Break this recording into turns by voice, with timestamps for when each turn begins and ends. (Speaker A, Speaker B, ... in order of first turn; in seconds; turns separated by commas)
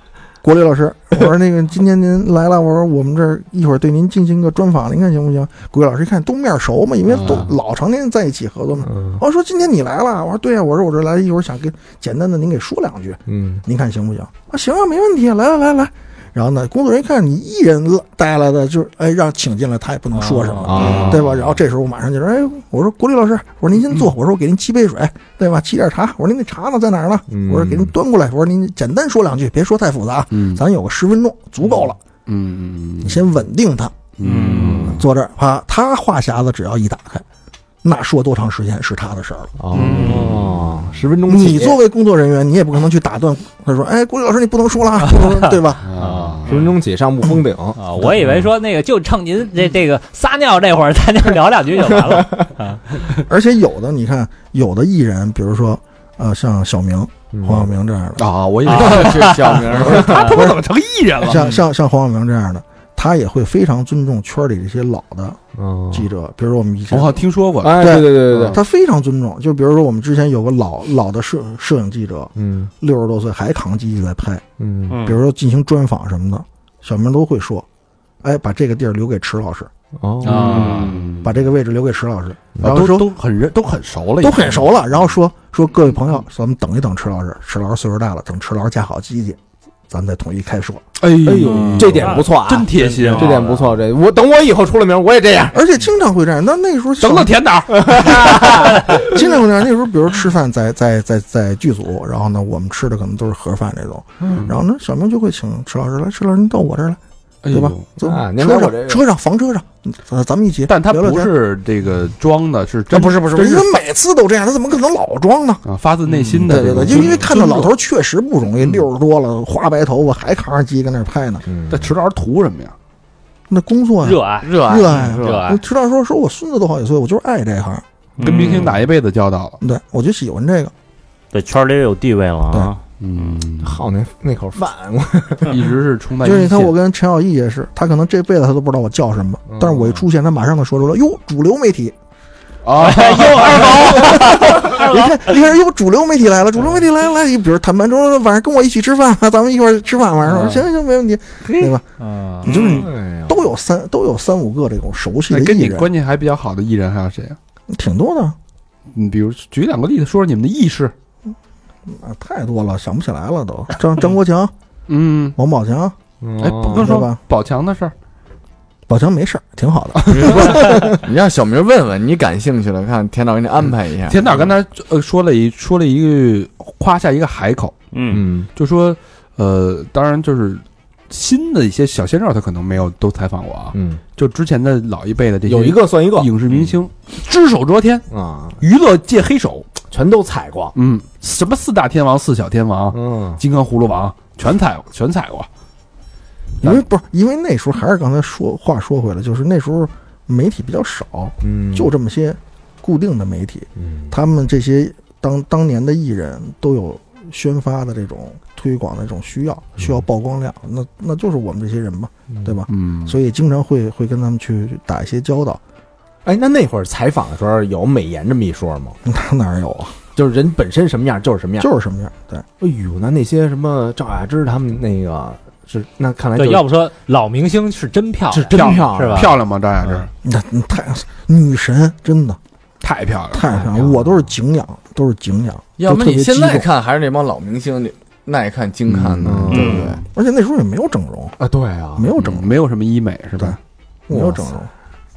Speaker A: 0.4-32.0, Speaker B: 7.1-7.5, Speaker C: 8.8-9.2, Speaker C: 13.3-13.6, Speaker D: 20.2-20.8, Speaker C: 20.6-21.2, Speaker B: 20.8-21.4, Speaker C: 27.3-27.9, Speaker B: 30.3-30.6, Speaker B: 32.2-33.2, Speaker A: 33.0-34.0, Speaker B: 34.2-35.0, Speaker E: 34.2-34.8, Speaker C: 34.2-35.0, Speaker A: 34.8-37.2, Speaker A: 37.8-39.5, Speaker C: 39.6-41.8, Speaker B: 39.7-40.9, Speaker E: 39.9-40.3, Speaker A: 41.3-45.8, Speaker B: 45.8-46.6, Speaker C: 46.0-48.2, Speaker D: 47.8-52.8, Speaker A: 53.3-58.3, Speaker C: 57.3-57.7, Speaker B: 58.2-61.5, Speaker F: 58.6-60.1, Speaker D: 58.7-59.2, Speaker D: 60.0-60.3, Speaker A: 60.2-60.6, Speaker A: 61.2-65.4, Speaker C: 65.5-66.1, Speaker A: 65.9-74.4, Speaker B: 66.9-68.6, Speaker C: 67.6-68.6, Speaker C: 72.3-72.7, Speaker C: 74.6-75.0, Speaker E: 74.9-75.2, Speaker A: 75.0-77.7, Speaker A: 78.2-79.7, Speaker C: 80.0-81.0, Speaker B: 80.2-81.4, Speaker E: 80.4-80.9, Speaker A: 81.2-83.1, Speaker C: 82.5-82.8, Speaker B: 82.6-84.8, Speaker A: 84.2-90.9, Speaker B: 91.0-93.8, Speaker C: 91.2-95.6, Speaker E: 91.8-93.5, Speaker A: 95.5-111.3, Speaker B: 97.0-98.5, Speaker C: 97.7-98.9, Speaker B: 104.3-104.6, Speaker B: 107.4-107.9, Speaker C: 108.0-109.0, Speaker B: 110.7-113.7, Speaker A: 112.9-115.6, Speaker B: 115.6-117.6, Speaker A: 116.4-121.4, Speaker C: 116.5-116.9, Speaker C: 121.5-121.9, Speaker B: 121.7-122.7, Speaker A: 123.5-127.8, Speaker D: 124.0-125.6, Speaker F: 124.4-125.2, Speaker E: 128.2-128.8, Speaker B: 128.2-129.6, Speaker A: 129.6-130.7, Speaker E: 131.3-133.4, Speaker B: 133.0-133.8, Speaker C: 133.6-135.6, Speaker B: 135.4-136.7, Speaker A: 136.2-141.9, Speaker C: 139.5-139.9, Speaker B: 142.6-145.1, Speaker D: 142.8-145.0, Speaker A: 143.8-151.8, Speaker B: 150.3-150.6, Speaker B: 151.4-151.7, Speaker D: 152.0-152.5, Speaker A: 152.4-155.9, Speaker B: 152.5-152.8, Speaker C: 152.5-153.4, Speaker B: 155.3-157.4, Speaker A: 157.7-158.4, Speaker B: 158.9-160.9, Speaker A: 161.8-164.5, Speaker B: 164.9-165.4, Speaker A: 165.3-165.9, Speaker C: 166.2-167.0, Speaker B: 166.4-167.9, Speaker A: 166.6-167.2, Speaker A: 168.9-170.6, Speaker F: 170.1-174.2, Speaker B: 174.1-177.7, Speaker E: 177.9-178.2, Speaker C: 178.1-178.5, Speaker B: 178.6-188.1, Speaker C: 183.7-184.0, Speaker C: 185.4-186.6, Speaker C: 188.1-188.6, Speaker B: 188.6-189.7, Speaker C: 189.9-190.8, Speaker B: 190.7-195.5, Speaker C: 192.9-193.4, Speaker A: 196.6-215.6, Speaker C: 201.4-201.9, Speaker C: 203.8-204.1, Speaker B: 212.7-213.2, Speaker C: 216.2-219.0, Speaker A: 219.0-220.0, Speaker C: 220.2-221.7, Speaker A: 221.6-222.4, Speaker C: 222.6-226.7, Speaker D: 226.4-229.3, Speaker C: 228.3-229.4, Speaker B: 228.5-230.1, Speaker A: 230.2-232.4, Speaker B: 232.8-233.5, Speaker A: 233.3-236.7, Speaker C: 233.6-234.0, Speaker F: 235.8-240.0, Speaker C: 239.2-239.9, Speaker B: 239.2-239.8, Speaker E: 239.5-239.9, Speaker A: 240.1-241.4, Speaker C: 241.4-242.2, Speaker A: 241.9-242.5, Speaker B: 242.2-243.6, Speaker A: 244.1-244.7, Speaker C: 244.1-244.5